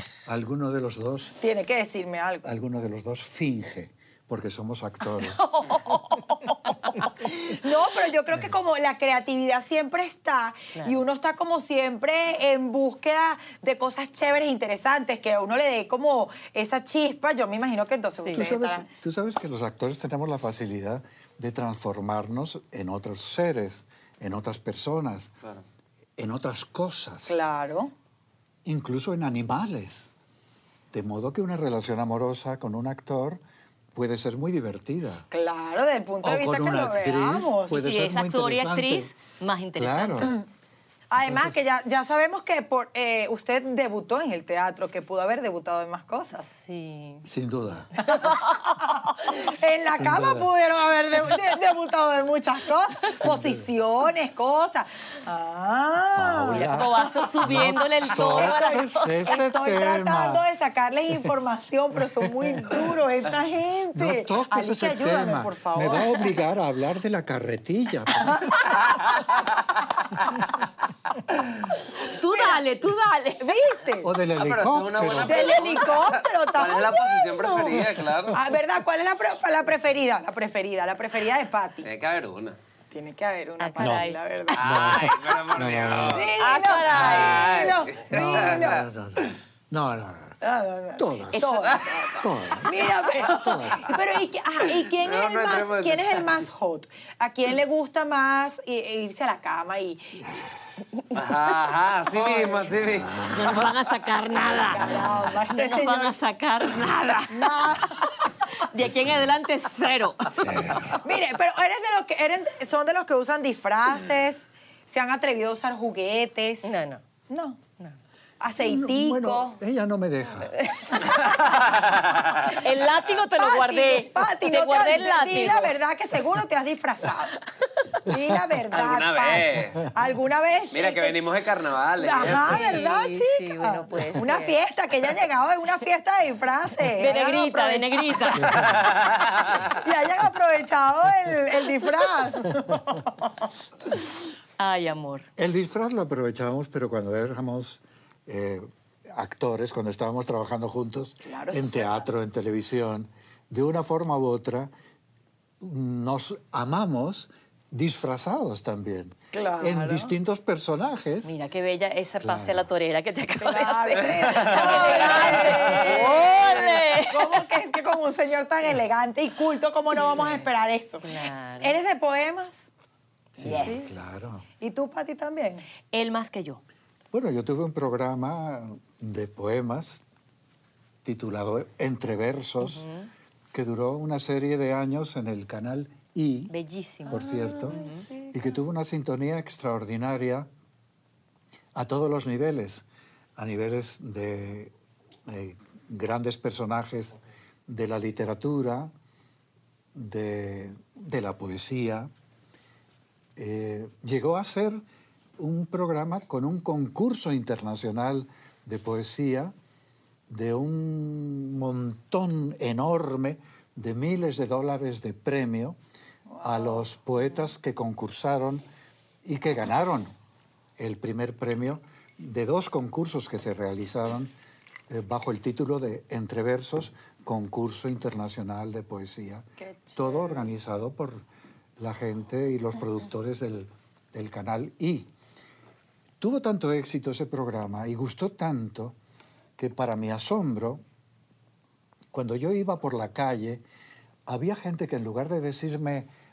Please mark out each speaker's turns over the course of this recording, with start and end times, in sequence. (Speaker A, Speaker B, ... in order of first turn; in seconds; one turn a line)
Speaker A: 0.3-1.4
Speaker B: 1.4-2.5
Speaker A: 2.4-5.5
Speaker C: 5.2-7.0
Speaker B: 7.5-18.9
Speaker A: 18.3-25.3
Speaker A: 26.2-27.5
Speaker B: 27.3-27.9
Speaker A: 28.6-30.1
Speaker A: 30.9-33.4
Speaker A: 34.0-35.3
Speaker B: 35.3-37.8
Speaker A: 36.2-39.1
Speaker C: 37.7-40.4
Speaker A: 39.8-40.4
Speaker B: 41.1-46.5
Speaker A: 41.2-41.5
Speaker C: 46.5-47.2
Speaker A: 47.2-48.0
Speaker B: 48.0-56.7
Speaker C: 48.1-48.5
Speaker A: 50.0-50.5
Speaker A: 53.2-53.6
Speaker A: 56.1-60.4
Speaker C: 56.5-59.3
Speaker B: 58.1-66.3
Speaker A: 62.0-62.9
Speaker A: 64.0-68.7
Speaker C: 72.0-73.6
Speaker B: 72.1-72.6
Speaker B: 73.4-74.1
Speaker A: 74.0-75.7
Speaker D: 74.3-78.4
Speaker B: 75.2-81.9
Speaker D: 81.8-82.6
Speaker B: 82.9-84.9
Speaker C: 83.6-84.2
Speaker A: 83.8-86.3
Speaker D: 84.5-86.3
Speaker B: 86.1-88.8
Speaker C: 86.4-87.6
Speaker D: 86.9-88.8
Speaker A: 88.1-90.4
Speaker B: 90.4-100.2
Speaker A: 91.0-94.0
Speaker C: 91.3-91.7
Speaker D: 95.0-96.4
Speaker D: 101.1-103.8
Speaker B: 102.1-102.7
Speaker A: 102.8-103.4
Speaker C: 103.3-108.0
Speaker B: 104.5-106.2
Speaker B: 107.3-108.1
Speaker C: 108.6-110.9
Speaker A: 110.4-111.0
Speaker B: 110.9-116.8
Speaker C: 116.6-117.0
Speaker B: 117.3-117.6
Speaker B: 118.4-119.6
Speaker A: 118.6-120.6
Speaker C: 120.5-121.6
Speaker D: 121.5-122.5
Speaker C: 122.4-125.8
Speaker B: 123.3-127.4
Speaker B: 128.1-131.2
Speaker D: 128.7-129.9
Speaker D: 130.7-132.7
Speaker B: 132.0-138.6
Speaker C: 132.3-134.6
Speaker C: 137.0-138.6
Speaker A: 138.4-138.8
Speaker D: 138.7-138.9
Speaker B: 139.7-143.3
Speaker C: 144.6-145.3
Speaker A: 145.4-154.7
Speaker B: 151.2-152.1
Speaker A: 155.6-161.3
Speaker B: 159.3-160.1
Speaker C: 161.2-167.4
Speaker A: 162.2-162.7
Speaker B: 163.4-172.7
Speaker D: 164.1-164.7
Speaker C: 171.0-171.8
Speaker C: 173.4-173.9
Speaker A: 173.4-174.4
Speaker B: 173.5-173.9
Speaker B: 174.6-175.7
Speaker C: 175.9-176.6
Speaker A: 177.1-180.0
Speaker A: 181.0-182.9
Speaker C: 182.6-183.1
Speaker A: 183.5-186.5
Speaker C: 186.5-188.1
Speaker A: 187.1-187.8
Speaker B: 187.1-188.6
Speaker A: 188.3-190.5
Speaker A: 191.8-192.8
Speaker A: 193.4-194.7
Speaker A: 195.3-198.9
Speaker A: 199.9-202.1
Speaker A: 203.4-204.8
Speaker A: 205.4-209.5
Speaker A: 210.3-215.8
Speaker B: 216.3-216.9
Speaker A: 216.4-218.7
Speaker A: 219.2-220.2
Speaker A: 220.8-224.3
Speaker A: 224.9-231.2
Speaker B: 229.6-230.5
Speaker A: 231.8-235.1
Speaker A: 236.2-238.9
Speaker A: 239.6-240.8
Speaker A: 242.1-243.6
Speaker A: 244.3-246.1